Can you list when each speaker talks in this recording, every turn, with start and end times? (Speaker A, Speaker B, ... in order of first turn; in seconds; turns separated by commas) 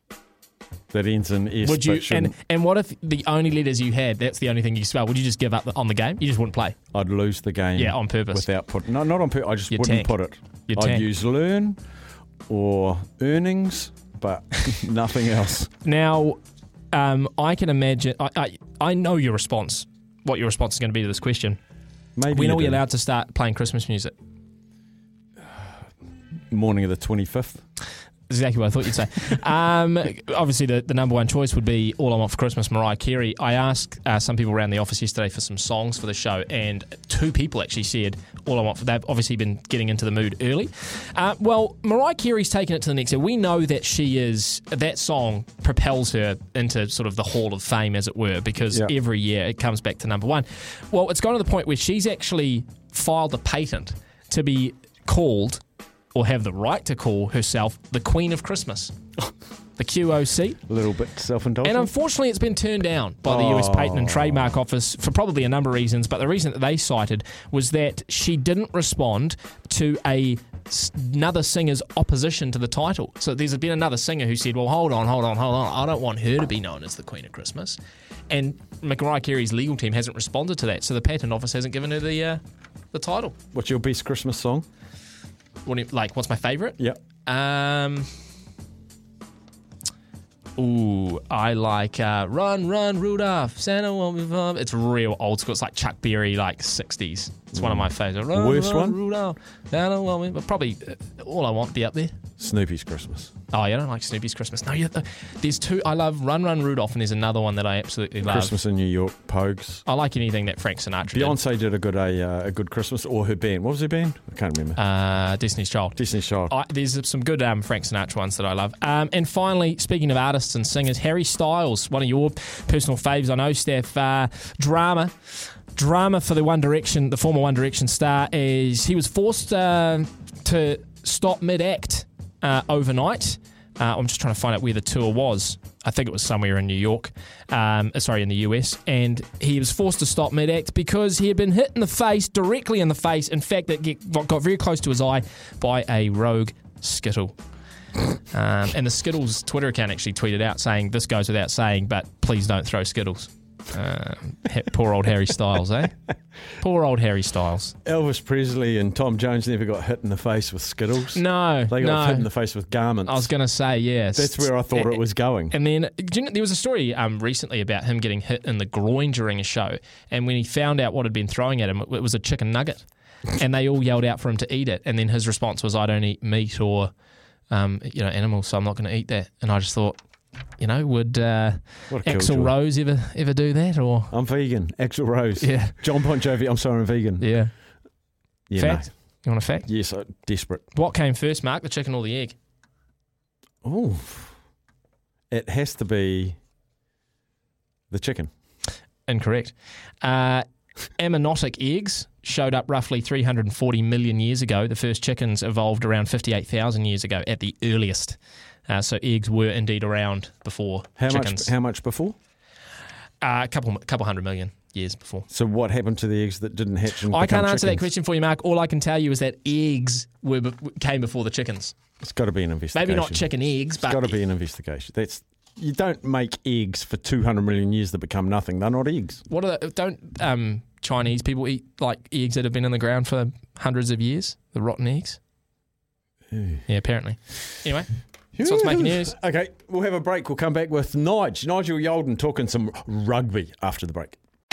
Speaker A: 0.9-2.4, Speaker B: 1.6-6.8, Speaker A: 6.9-11.8, Speaker B: 7.8-8.5, Speaker B: 9.7-10.1, Speaker B: 10.7-11.1, Speaker A: 12.5-15.7, Speaker B: 15.8-16.4, Speaker B: 16.9-21.6, Speaker A: 22.2-22.8, Speaker B: 22.3-24.1, Speaker A: 26.5-27.6, Speaker B: 28.3-55.6, Speaker B: 56.1-58.9, Speaker B: 59.8-60.6, Speaker A: 60.7-61.9, Speaker B: 61.6-77.8, Speaker A: 63.2-64.6, Speaker B: 78.3-82.4, Speaker B: 82.9-83.3, Speaker A: 83.5-84.7, Speaker B: 85.7-88.1, Speaker B: 90.6-102.1, Speaker A: 97.5-99.0, Speaker A: 102.4-103.3, Speaker B: 103.5-108.5, Speaker A: 108.2-109.8, Speaker B: 109.9-111.4, Speaker A: 111.1-114.8, Speaker B: 114.8-147.4, Speaker A: 116.0-116.5, Speaker B: 148.3-156.0, Speaker B: 156.6-157.8, Speaker A: 157.8-163.3, Speaker B: 161.1-162.3, Speaker B: 163.1-176.9, Speaker A: 164.2-165.6, Speaker B: 177.5-180.0, Speaker B: 180.6-184.1, Speaker A: 181.9-182.5, Speaker A: 184.1-187.3, Speaker B: 185.4-185.8, Speaker B: 187.2-187.5, Speaker A: 188.5-190.6, Speaker B: 188.6-189.7, Speaker B: 190.7-192.4, Speaker A: 193.6-194.3, Speaker A: 195.3-196.4, Speaker A: 197.9-198.3, Speaker B: 199.1-200.4, Speaker B: 201.0-211.5, Speaker A: 211.0-212.2, Speaker B: 213.2-215.3, Speaker A: 215.3-217.8, Speaker B: 217.0-221.8, Speaker A: 222.0-229.2, Speaker B: 222.7-224.2, Speaker B: 229.3-235.2, Speaker A: 236.3-236.6, Speaker B: 236.7-239.2, Speaker A: 238.3-244.2